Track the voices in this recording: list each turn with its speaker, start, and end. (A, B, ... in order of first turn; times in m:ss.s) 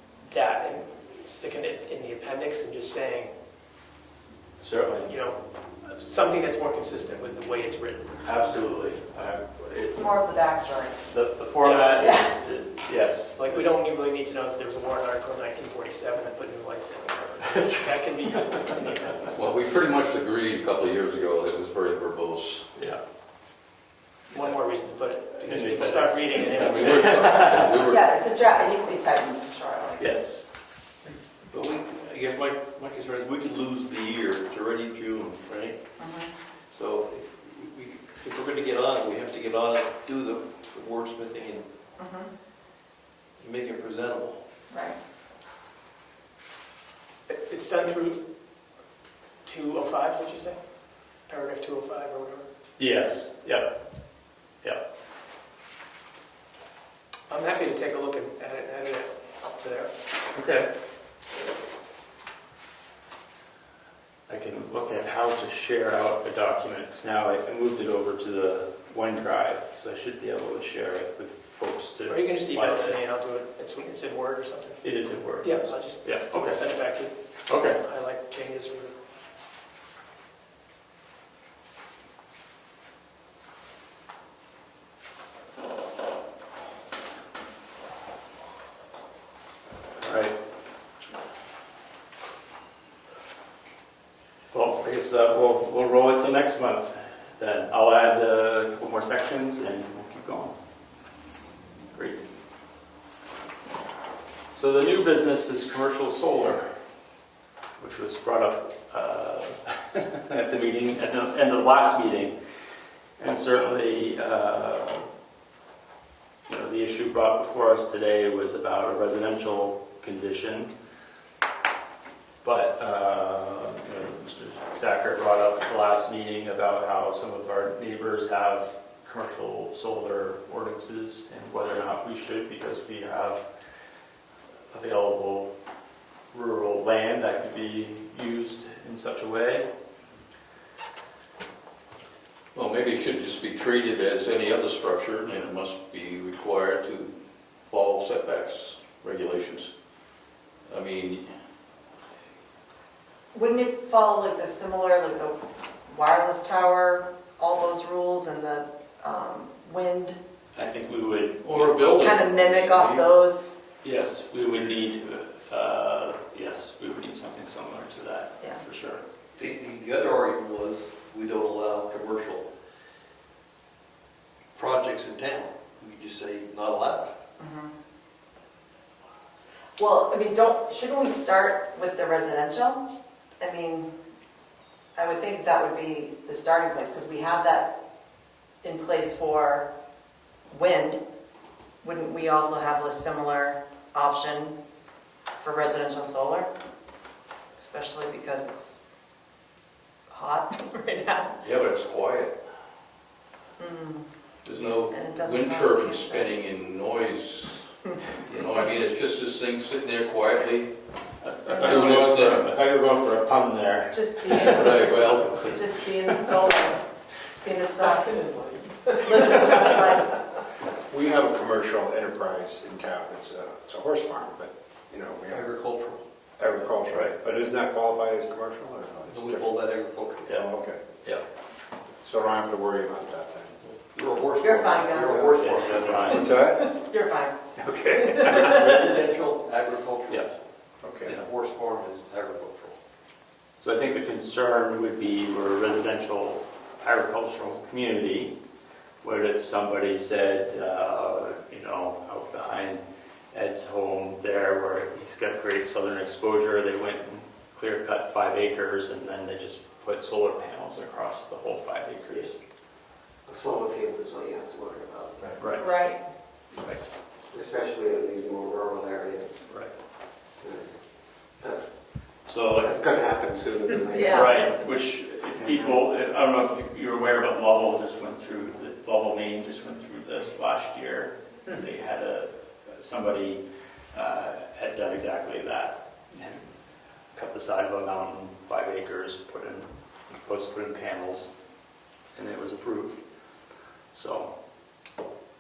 0:00.3-0:03.3 A
0:04.6-0:05.1 B
0:05.0-0:08.5 A
0:08.2-0:10.2 B
0:09.9-0:11.0 C
0:11.1-0:13.6 B
0:11.6-0:12.3 A
0:13.4-0:19.4 A
0:19.4-0:22.7 D
0:22.8-0:23.0 B
0:24.3-0:27.2 A
0:25.4-0:27.9 B
0:26.4-0:28.0 D
0:27.8-0:30.1 C
0:30.0-0:30.5 B
0:31.4-0:35.8 E
0:36.0-0:36.3 C
0:36.7-0:41.6 E
0:42.0-0:42.3 C
0:43.4-0:44.4 E
0:44.7-0:45.0 C
0:47.3-0:48.2 A
0:49.4-0:50.6 A
0:51.3-0:52.5 A
0:52.8-0:53.7 B
0:57.3-0:59.9 A
1:00.3-1:00.7 B
1:04.3-1:13.0 B
1:12.1-1:14.8 A
1:14.8-1:16.6 B
1:15.4-1:17.1 A
1:17.5-1:17.8 B
1:17.7-1:18.9 A
1:30.0-1:30.4 B
1:34.5-1:40.6 B
1:41.9-1:42.2 B
1:44.5-1:46.7 B
1:47.8-1:52.4 B
1:53.2-1:55.1 B
1:56.5-2:00.7 B
2:02.4-2:13.4 B
2:14.7-2:15.5 B
2:16.3-2:19.7 B
2:22.6-2:27.1 D
2:27.7-2:29.7 D
2:30.7-2:31.3 D
2:33.3-2:40.2 C
2:40.6-2:41.8 B
2:41.4-2:43.1 D
2:41.8-2:43.6 C
2:43.8-2:49.0 B
2:49.4-2:52.5 E
2:54.6-2:57.2 E
2:57.4-2:57.7 C
2:59.8-3:02.8 C
3:03.4-3:03.9 C
3:05.0-3:07.7 C
3:08.6-3:09.7 C
3:10.5-3:11.0 C
3:11.8-3:14.6 C
3:15.4-3:16.5 C
3:17.6-3:18.8 C
3:20.1-3:21.3 C
3:21.4-3:22.3 D
3:23.6-3:24.1 C
3:24.4-3:30.7 D
3:24.9-3:26.4 C
3:31.2-3:35.6 B
3:31.5-3:32.1 C
3:31.5-3:32.5 D
3:33.9-3:38.4 C
3:34.3-3:35.6 D
3:38.0-3:39.3 A
3:38.9-3:40.2 C
3:40.9-3:45.5 F
3:45.3-3:46.0 E
3:46.4-3:49.5 F
3:46.9-3:47.2 B
3:49.1-3:50.4 E
3:50.3-3:50.8 F
3:52.0-3:53.6 F
3:53.9-3:56.5 E
3:54.4-3:55.3 C
3:55.4-3:56.4 B
3:56.0-3:56.7 F
3:56.7-3:57.4 C
3:57.6-3:58.6 B
3:57.9-4:00.3 E
4:00.8-4:01.2 F
4:01.0-4:02.8 E
4:03.6-4:08.3 B
4:09.0-4:22.4 B
4:23.3-4:25.4 G
4:25.4-4:25.7 B
4:25.5-4:26.0 C
4:27.3-4:29.5 G
4:32.3-4:32.8 B
4:32.6-4:34.5 G
4:33.9-4:34.4 C
4:34.1-4:43.4 B
4:43.9-4:46.4 B
4:47.1-4:51.3 B
4:52.1-4:53.0 B
4:53.9-4:54.3 B